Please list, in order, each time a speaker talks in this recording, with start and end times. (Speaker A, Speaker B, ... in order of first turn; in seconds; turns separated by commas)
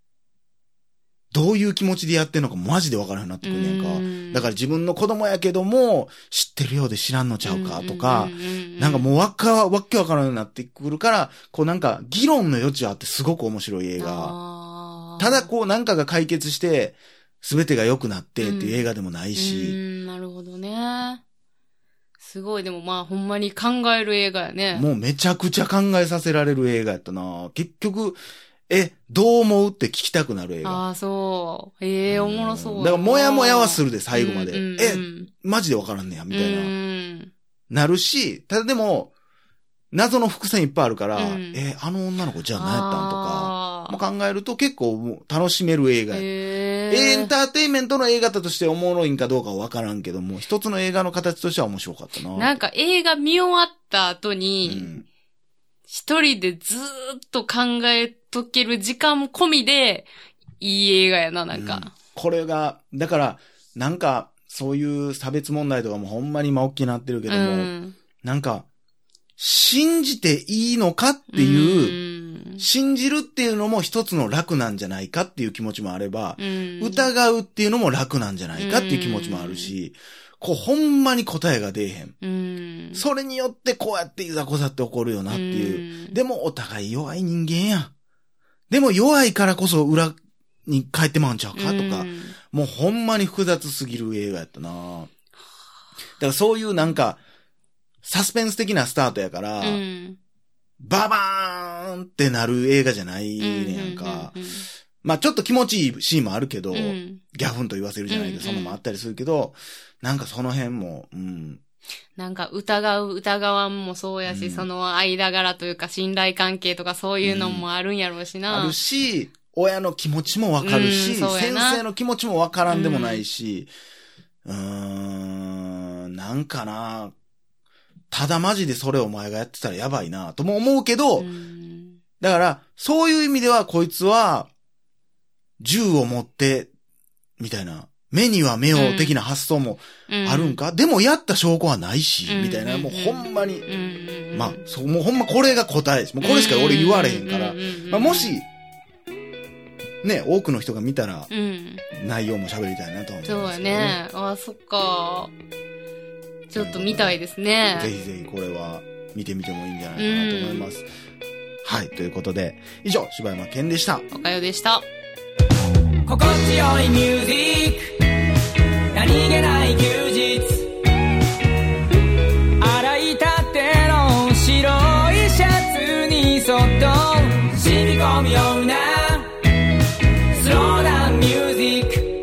Speaker A: 1.3-14.3, Speaker B: 3.4-4.5, Speaker B: 7.4-9.1, Speaker B: 14.0-15.5, Speaker A: 15.2-19.8, Speaker B: 18.4-18.8, Speaker B: 19.4-21.2, Speaker B: 22.2-24.9, Speaker A: 24.7-30.8, Speaker B: 30.6-35.3, Speaker A: 32.1-36.7, Speaker B: 36.3-37.3, Speaker A: 37.7-39.1, Speaker A: 39.9-46.2, Speaker B: 41.1-41.6, Speaker B: 42.5-44.0, Speaker B: 46.1-47.3, Speaker A: 46.9-52.5, Speaker B: 52.3-54.9, Speaker A: 54.6-55.1, Speaker B: 55.9-61.9, Speaker A: 61.5-67.7, Speaker B: 67.3-68.0, Speaker A: 68.2-68.7, Speaker A: 69.4-72.0, Speaker B: 71.3-72.6, Speaker A: 72.6-82.1, Speaker B: 76.4-77.1, Speaker B: 78.5-79.7, Speaker B: 82.2-83.0, Speaker A: 83.0-87.9, Speaker B: 85.3-86.2, Speaker A: 88.7-95.1, Speaker B: 91.5-92.3, Speaker A: 96.2-97.2, Speaker A: 98.0-99.8, Speaker B: 99.6-100.2, Speaker A: 100.8-104.3, Speaker B: 103.4-104.7, Speaker A: 105.0-111.6, Speaker B: 106.7-107.2, Speaker B: 108.1-108.8, Speaker B: 112.2-118.8, Speaker A: 114.2-114.7, Speaker A: 117.2-117.7, Speaker A: 118.5-123.7, Speaker B: 120.6-121.8, Speaker B: 122.7-123.2, Speaker A: 124.4-127.1, Speaker A: 128.1-131.3, Speaker B: 131.2-132.0, Speaker A: 132.2-134.5, Speaker A: 135.6-136.7, Speaker A: 137.4-143.7, Speaker B: 138.7-139.2, Speaker B: 140.1-140.6, Speaker B: 142.3-144.6, Speaker A: 144.3-148.4, Speaker B: 146.2-148.3, Speaker A: 150.0-151.3, Speaker B: 151.3-151.8, Speaker A: 151.9-154.0, Speaker B: 153.2-155.3, Speaker B: 156.5-157.9, Speaker A: 156.6-157.2, Speaker A: 157.8-160.9, Speaker B: 160.0-160.7, Speaker A: 161.6-164.1, Speaker B: 164.1-164.9, Speaker C: 166.1-168.0, Speaker C: 168.9-170.7, Speaker C: 172.6-179.3, Speaker C: 180.3-182.1